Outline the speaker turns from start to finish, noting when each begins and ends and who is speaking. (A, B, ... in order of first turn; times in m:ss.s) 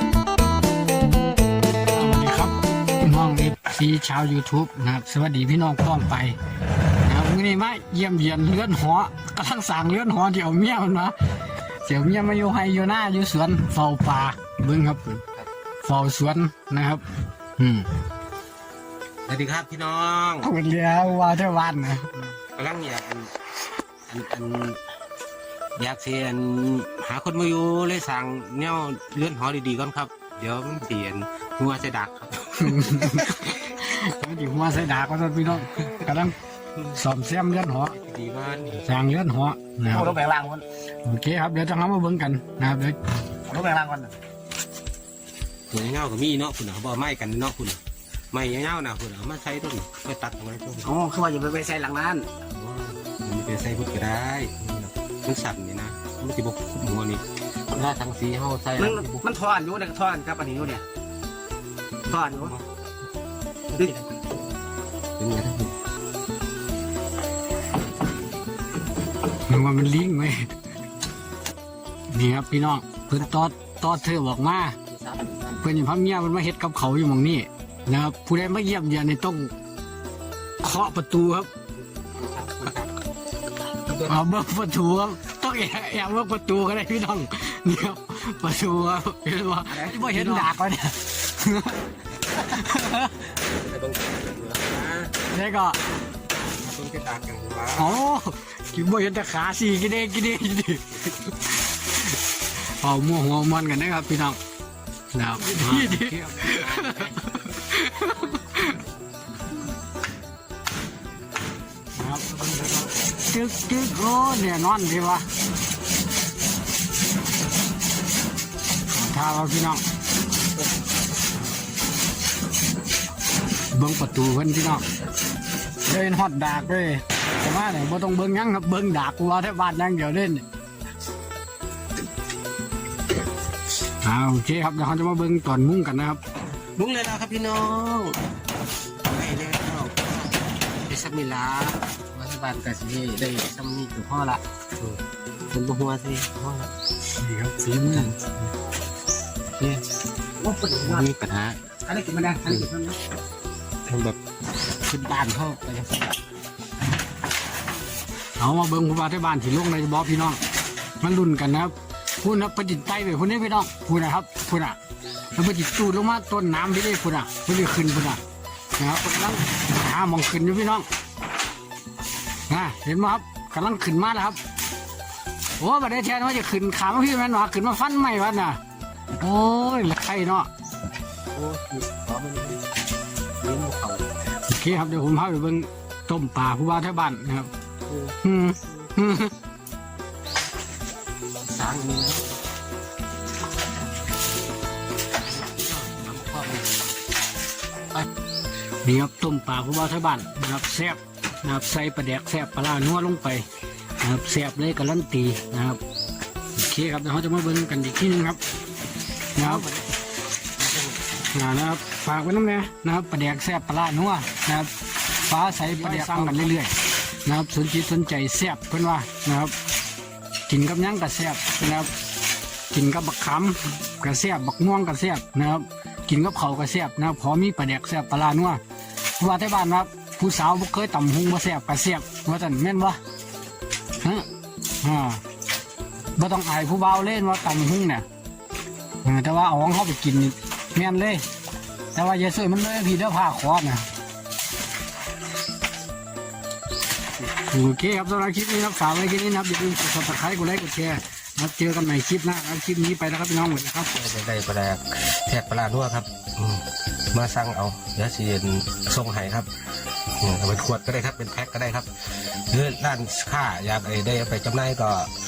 0:01.9-0:06.4 A
0:07.0-0:11.1 A
0:11.8-0:15.2 A
0:15.8-0:17.0 A
0:17.6-0:17.9 A
0:19.3-0:20.5 B
0:20.4-0:22.2 A
0:22.5-0:23.3 B
0:24.1-0:24.8 B
0:25.8-0:33.5 B
0:32.6-0:36.3 A
0:36.9-0:37.9 A
0:37.9-0:38.9 B
0:38.8-0:40.1 A
0:39.9-0:40.6 C
0:41.0-0:43.0 A
0:43.5-0:44.1 C
0:45.7-0:47.8 B
0:48.3-0:50.9 B
0:50.8-0:52.3 C
0:52.5-0:59.3 B
0:58.8-1:00.8 C
1:02.1-1:02.5 C
1:02.1-1:02.6 B
1:03.7-1:04.0 C
1:05.2-1:05.7 B
1:09.5-1:10.5 A
1:12.1-1:14.8 A
1:14.9-1:15.6 B
1:15.6-1:19.5 A
1:20.6-1:21.5 A
1:22.0-1:22.9 B
1:23.8-1:24.1 B
1:24.0-1:31.8 A
1:29.8-1:30.4 B
1:30.0-1:30.4 C
1:32.3-1:33.3 A
1:33.4-1:35.1 B
1:35.3-1:35.8 A
1:36.4-1:38.0 B
1:37.8-1:41.0 A
1:42.1-1:44.4 A
1:45.1-1:48.8 A
1:45.5-1:47.2 B
1:52.0-1:52.2 A
1:52.3-1:52.8 B
1:53.3-1:55.3 A
1:58.9-1:59.8 A
2:03.7-2:04.8 A
2:05.8-2:10.4 A
2:14.0-2:16.2 A
2:16.8-2:18.2 B
2:19.0-2:25.0 B
2:25.5-2:26.7 B
2:27.2-2:28.1 A
2:27.8-2:28.5 B
2:29.6-2:29.8 B
2:30.4-2:31.0 C
2:30.8-2:31.6 B
2:31.8-2:33.0 C
2:32.4-2:32.7 B
2:33.9-2:34.2 B
2:34.8-2:36.2 B
2:38.4-2:40.4 A
2:41.0-2:44.8 A
2:45.4-2:48.2 A
2:48.8-2:50.8 A
2:52.5-2:54.4 A
2:55.6-2:58.6 A
2:59.2-3:00.5 A
3:01.3-3:02.6 B
3:03.4-3:04.2 B
3:04.5-3:07.5 A
3:07.9-3:08.2 B
3:08.2-3:09.3 A
3:11.4-3:12.4 B
3:15.2-3:16.9 B
3:18.8-3:23.4 A
3:24.0-3:25.8 A
3:26.5-3:28.4 A
3:29.4-3:29.6 A
3:29.4-3:29.9 B
3:30.6-3:31.0 B
3:31.3-3:34.7 A
3:35.3-3:39.5 A
3:35.6-3:36.6 B
3:40.5-3:41.9 A
3:42.7-3:48.6 A
3:49.2-3:53.0 A
3:54.0-3:54.3 A
3:54.8-3:55.2 A
3:56.2-3:58.0 A
3:59.0-4:01.2 A
4:01.9-4:03.8 A
4:07.5-4:13.9 A
4:13.9-4:19.5 B
4:20.2-4:25.1 B